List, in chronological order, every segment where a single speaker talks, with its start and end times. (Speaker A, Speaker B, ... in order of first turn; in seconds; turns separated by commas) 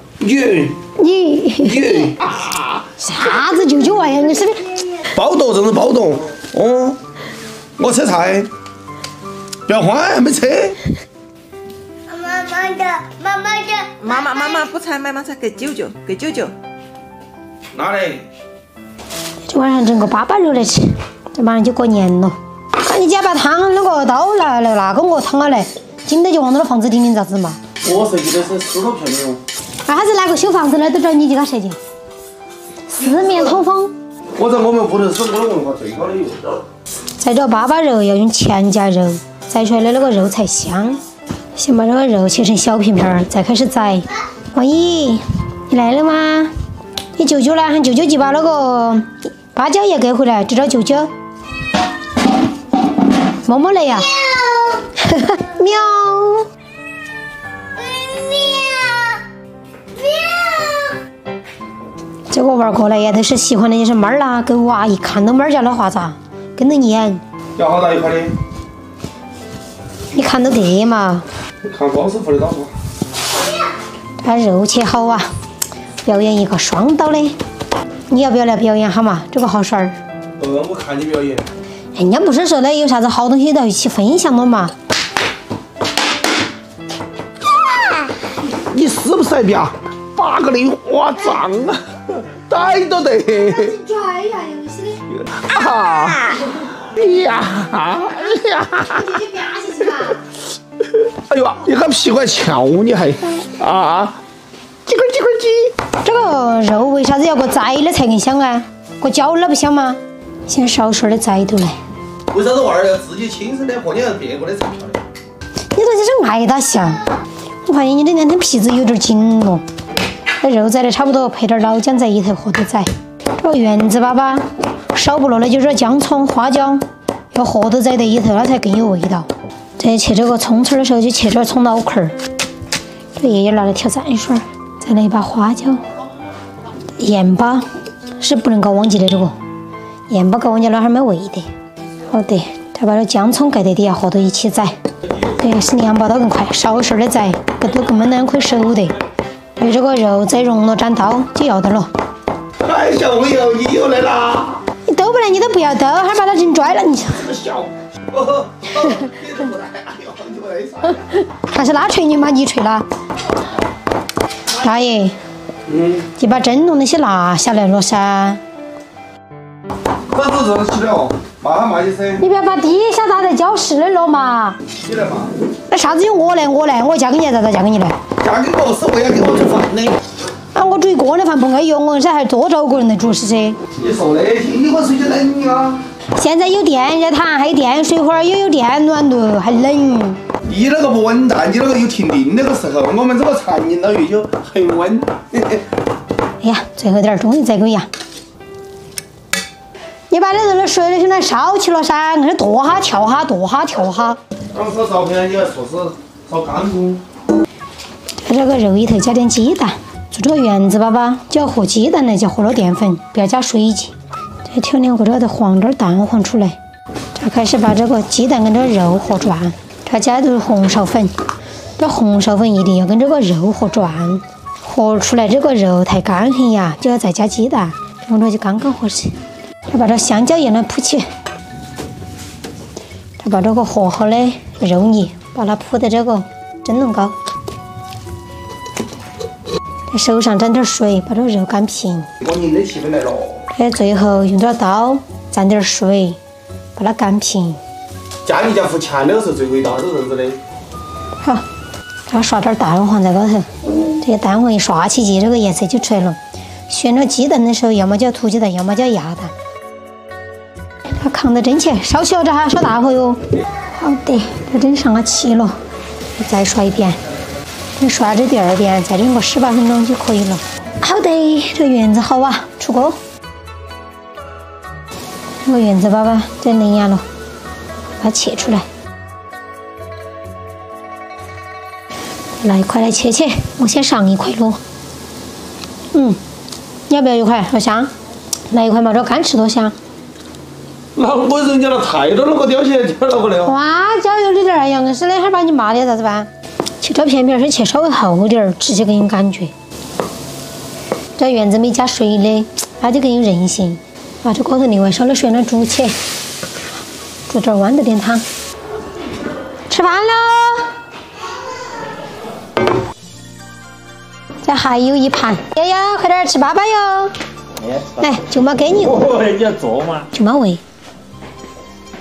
Speaker A: 0.2-0.8, Speaker B: 1.0-2.2, Speaker A: 1.6-2.9, Speaker B: 3.0-4.8, Speaker A: 5.0-7.0, Speaker A: 7.8-8.5, Speaker A: 9.7-10.8, Speaker C: 12.1-14.0, Speaker D: 13.9-16.5, Speaker A: 17.7-18.2, Speaker B: 19.5-27.6, Speaker A: 27.8-29.4, Speaker B: 29.9-31.8, Speaker B: 32.9-33.9, Speaker A: 33.0-33.5, Speaker A: 34.4-36.5, Speaker B: 37.2-41.0, Speaker B: 41.6-46.5, Speaker B: 47.1-51.1, Speaker B: 53.5-54.2, Speaker C: 54.4-54.8, Speaker B: 55.0-56.5, Speaker C: 57.8-59.2, Speaker C: 60.0-61.0, Speaker B: 62.3-67.2, Speaker A: 67.6-68.3, Speaker B: 70.1-71.3, Speaker A: 71.6-72.7, Speaker B: 74.2-75.3, Speaker B: 76.0-77.4, Speaker B: 78.1-80.0, Speaker A: 80.4-81.5, Speaker B: 82.0-84.7, Speaker A: 88.5-93.8, Speaker B: 93.3-95.0, Speaker A: 95.1-99.1, Speaker B: 95.8-96.2, Speaker B: 98.8-100.2, Speaker A: 101.0-104.1, Speaker A: 104.9-105.7, Speaker B: 106.0-111.8, Speaker A: 112.3-115.0, Speaker B: 115.8-117.1, Speaker B: 117.7-119.7, Speaker B: 120.4-132.2, Speaker B: 133.2-135.8, Speaker B: 137.0-137.7, Speaker B: 138.2-139.3, Speaker B: 140.1-141.5, Speaker B: 142.1-144.7, Speaker B: 145.3-148.9, Speaker B: 149.6-151.9, Speaker A: 152.6-154.6, Speaker B: 154.9-157.3, Speaker A: 157.1-161.2, Speaker B: 161.3-162.9, Speaker B: 164.5-165.2, Speaker A: 165.7-166.1, Speaker B: 166.2-168.4, Speaker A: 170.1-172.2, Speaker B: 172.2-174.6, Speaker A: 174.8-175.3, Speaker B: 175.7-178.0, Speaker A: 178.2-180.0, Speaker B: 180.5-183.6, Speaker A: 183.8-185.8, Speaker B: 186.2-190.2, Speaker A: 190.5-195.6, Speaker B: 196.4-197.9, Speaker B: 200.1-204.2, Speaker A: 204.5-207.0, Speaker B: 208.3-213.9, Speaker B: 214.4-216.6, Speaker B: 217.2-221.1, Speaker B: 221.8-229.2, Speaker B: 229.7-231.1, Speaker B: 233.2-237.2, Speaker B: 239.9-242.1, Speaker A: 242.2-243.4, Speaker B: 243.6-246.2, Speaker B: 246.8-247.6, Speaker A: 248.2-250.4, Speaker B: 252.1-259.3, Speaker B: 261.0-263.2, Speaker B: 263.7-265.6, Speaker B: 266.2-267.0, Speaker B: 267.8-273.0, Speaker B: 275.4-277.0, Speaker B: 278.0-278.6, Speaker B: 282.4-284.6, Speaker B: 285.9-286.2, Speaker B: 286.9-287.9, Speaker B: 288.5-289.8, Speaker A: 291.0-293.6, Speaker B: 293.4-296.3, Speaker B: 296.8-299.5, Speaker B: 301.2-306.0, Speaker B: 307.3-308.2, Speaker B: 309.7-310.7, Speaker B: 314.4-317.1, Speaker B: 317.9-319.1, Speaker A: 319.3-319.9, Speaker B: 320.1-320.6